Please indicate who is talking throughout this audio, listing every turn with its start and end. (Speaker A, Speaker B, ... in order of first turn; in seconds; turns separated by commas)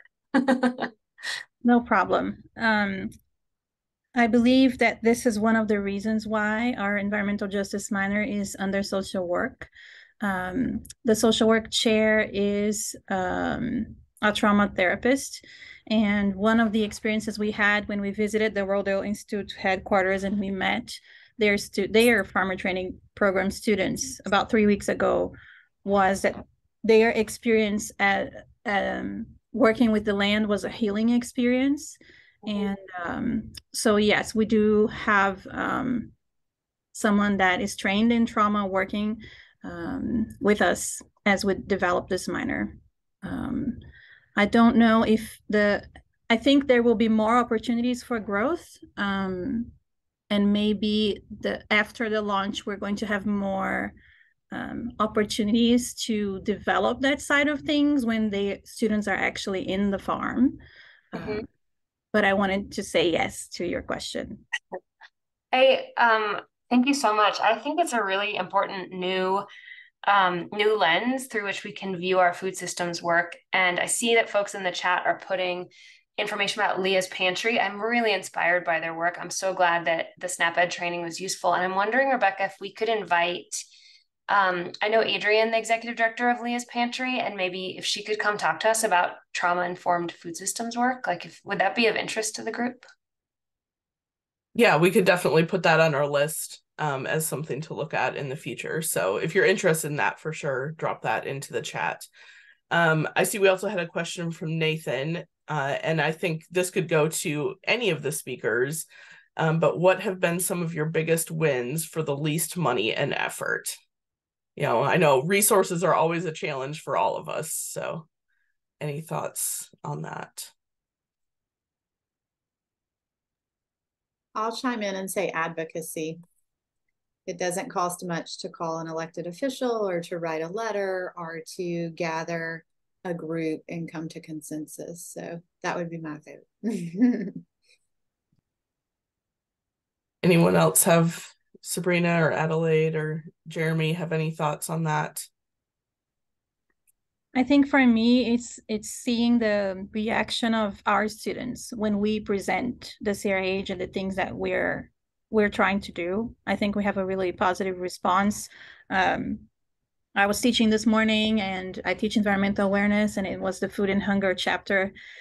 Speaker A: 0.4-0.9, Speaker B: 1.6-3.1, Speaker B: 4.2-9.7, Speaker B: 10.2-36.1, Speaker B: 36.9-43.8, Speaker B: 44.4-49.7, Speaker B: 50.3-53.9, Speaker B: 54.5-60.6, Speaker B: 61.1-61.5, Speaker A: 61.2-61.4, Speaker B: 62.1-64.4, Speaker A: 65.5-69.5, Speaker A: 70.0-83.6, Speaker A: 84.3-92.8, Speaker C: 94.5-102.1, Speaker C: 102.7-108.9, Speaker C: 109.4-113.8, Speaker C: 114.6-118.1, Speaker C: 118.8-120.5, Speaker D: 124.4-126.2, Speaker D: 127.3-137.4, Speaker C: 140.2-145.3, Speaker B: 147.3-159.5, Speaker B: 160.2-164.9